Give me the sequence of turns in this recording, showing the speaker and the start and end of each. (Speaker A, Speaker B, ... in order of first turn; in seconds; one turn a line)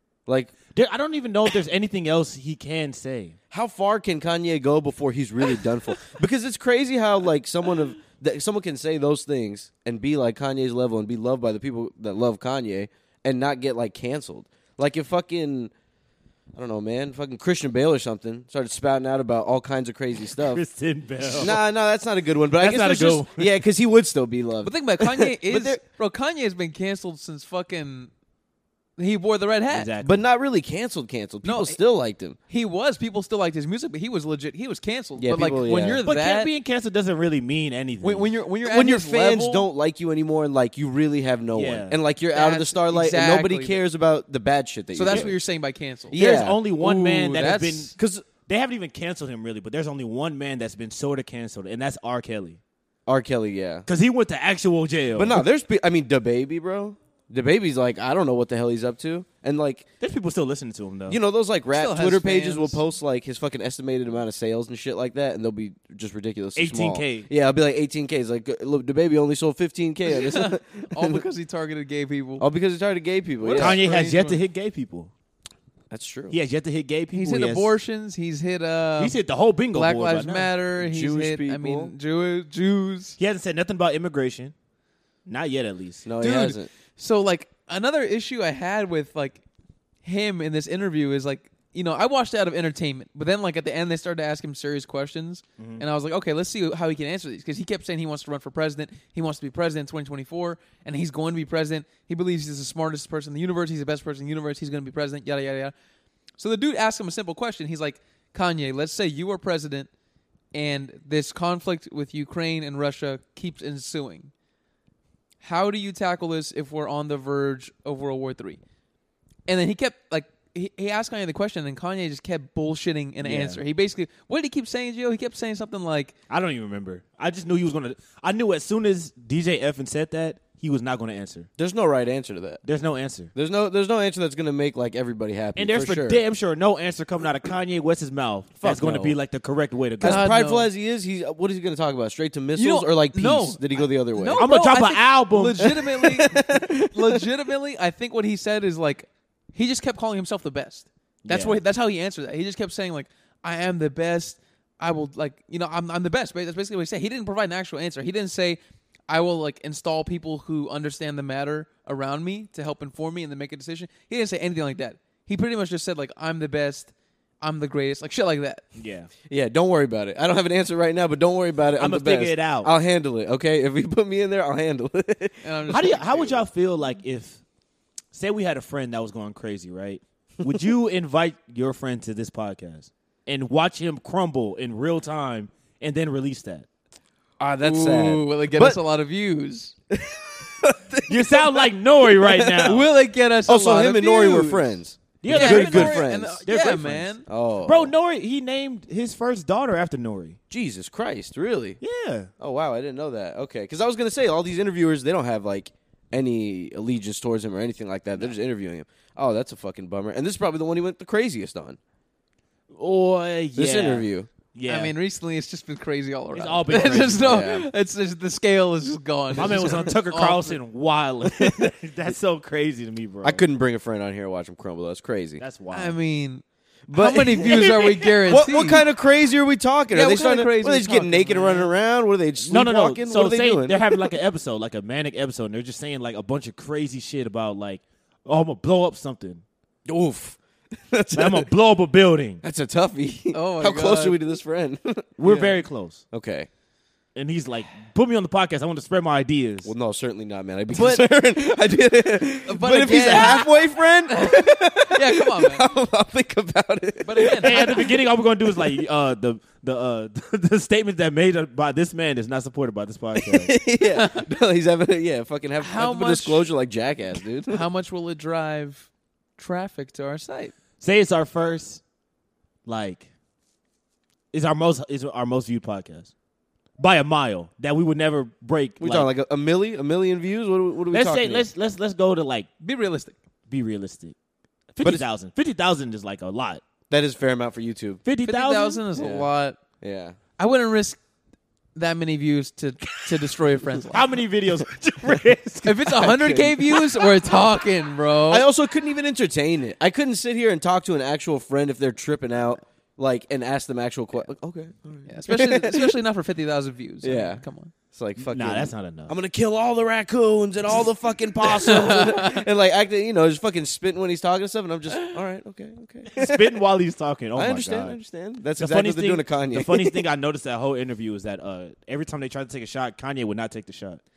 Speaker A: 0.3-0.5
Speaker B: 0.7-3.4
Speaker A: 3.5-15.7
Speaker A: 16.5-20.6
Speaker B: 20.2-21.6
Speaker A: 21.3-25.8
Speaker B: 22.6-23.6
Speaker C: 24.6-28.1
Speaker C: 29.0-29.9
Speaker B: 29.7-30.3
Speaker A: 30.0-32.4
Speaker C: 31.4-31.8
Speaker C: 32.5-36.5
Speaker A: 35.2-36.0
Speaker B: 36.0-38.3
Speaker C: 38.0-39.7
Speaker A: 38.6-45.3
Speaker B: 41.5-42.0
Speaker C: 42.3-43.8
Speaker C: 44.9-46.2
Speaker B: 45.1-45.3
Speaker A: 46.1-46.6
Speaker B: 46.1-47.9
Speaker C: 46.8-47.9
Speaker A: 48.0-48.3
Speaker B: 48.5-52.6
Speaker A: 53.1-53.9
Speaker B: 53.9-55.4
Speaker A: 55.1-59.9
Speaker B: 60.0-61.2
Speaker A: 61.1-71.2
Speaker C: 61.7-62.8
Speaker B: 66.5-67.3
Speaker C: 70.1-72.4
Speaker A: 72.4-73.8
Speaker C: 73.4-74.4
Speaker B: 73.5-75.1
Speaker A: 75.9-76.4
Speaker B: 76.3-77.8
Speaker C: 77.1-79.2
Speaker B: 79.0-80.5
Speaker C: 79.7-83.2
Speaker A: 80.8-81.9
Speaker B: 83.2-84.5
Speaker B: 85.2-86.0
Speaker A: 86.0-86.7
Speaker C: 86.2-89.4
Speaker C: 90.0-105.7
Speaker B: 95.6-95.8
Speaker C: 106.4-109.9
Speaker C: 110.5-114.3
Speaker C: 115.4-118.6
Speaker C: 119.5-126.1
Speaker B: 123.2-123.6
Speaker B: 126.3-131.5
Speaker A: 131.6-132.6
Speaker B: 132.6-133.3
Speaker A: 133.3-136.2
Speaker B: 135.6-140.2
Speaker A: 138.6-139.2
Speaker A: 140.0-144.5
Speaker C: 140.0-140.7
Speaker C: 142.6-168.6
Speaker B: 144.3-145.8
Speaker A: 145.6-147.2
Speaker B: 151.2-151.6
Speaker B: 168.7-169.1
Speaker A: 169.3-175.8
Speaker B: 171.8-172.7
Speaker C: 175.4-176.4
Speaker B: 175.7-177.4
Speaker B: 178.1-186.7
Speaker A: 187.4-188.8
Speaker C: 187.6-189.7
Speaker A: 189.9-192.8
Speaker B: 191.1-192.8
Speaker C: 192.6-194.6
Speaker A: 193.5-196.4
Speaker B: 195.2-197.1
Speaker C: 195.3-197.2
Speaker A: 197.2-197.9
Speaker B: 197.6-200.4
Speaker A: 200.5-201.8
Speaker B: 201.8-202.3
Speaker A: 202.4-211.8
Speaker B: 212.7-214.9
Speaker A: 213.6-214.3
Speaker C: 214.7-220.6
Speaker B: 216.3-217.4
Speaker A: 216.8-217.7
Speaker B: 219.3-223.4
Speaker A: 221.2-221.7
Speaker A: 223.2-225.4
Speaker B: 225.4-225.9
Speaker C: 225.7-228.8
Speaker A: 226.9-234.1
Speaker C: 229.9-231.7
Speaker B: 232.4-239.4
Speaker A: 239.8-241.5
Speaker B: 241.1-242.4
Speaker A: 242.4-245.6
Speaker C: 243.3-244.2
Speaker B: 245.2-246.0
Speaker A: 246.1-246.5
Speaker B: 247.1-249.7
Speaker A: 249.6-257.9
Speaker C: 252.5-253.5
Speaker C: 254.1-255.7
Speaker C: 257.0-257.8
Speaker B: 257.4-263.5
Speaker A: 263.1-267.6
Speaker C: 263.8-264.3
Speaker C: 265.6-266.5
Speaker C: 267.5-270.5
Speaker B: 270.8-271.8
Speaker B: 272.6-273.1
Speaker B: 274.3-276.1
Speaker B: 276.8-279.1
Speaker A: 278.8-281.5
Speaker B: 280.9-282.5
Speaker C: 282.6-283.1
Speaker B: 283.5-284.1
Speaker B: 284.7-286.6
Speaker A: 286.9-288.0
Speaker B: 288.0-288.8
Speaker C: 288.2-289.6
Speaker A: 289.0-289.3
Speaker A: 289.8-290.2
Speaker C: 290.4-291.0
Speaker C: 291.7-294.1
Speaker B: 293.9-296.1
Speaker C: 295.6-298.4
Speaker A: 295.9-297.1
Speaker A: 298.3-306.0
Speaker C: 305.1-307.7
Speaker A: 307.0-316.6
Speaker B: 308.2-309.1
Speaker C: 311.6-312.4
Speaker B: 316.1-318.0
Speaker A: 317.3-320.0
Speaker B: 318.6-324.0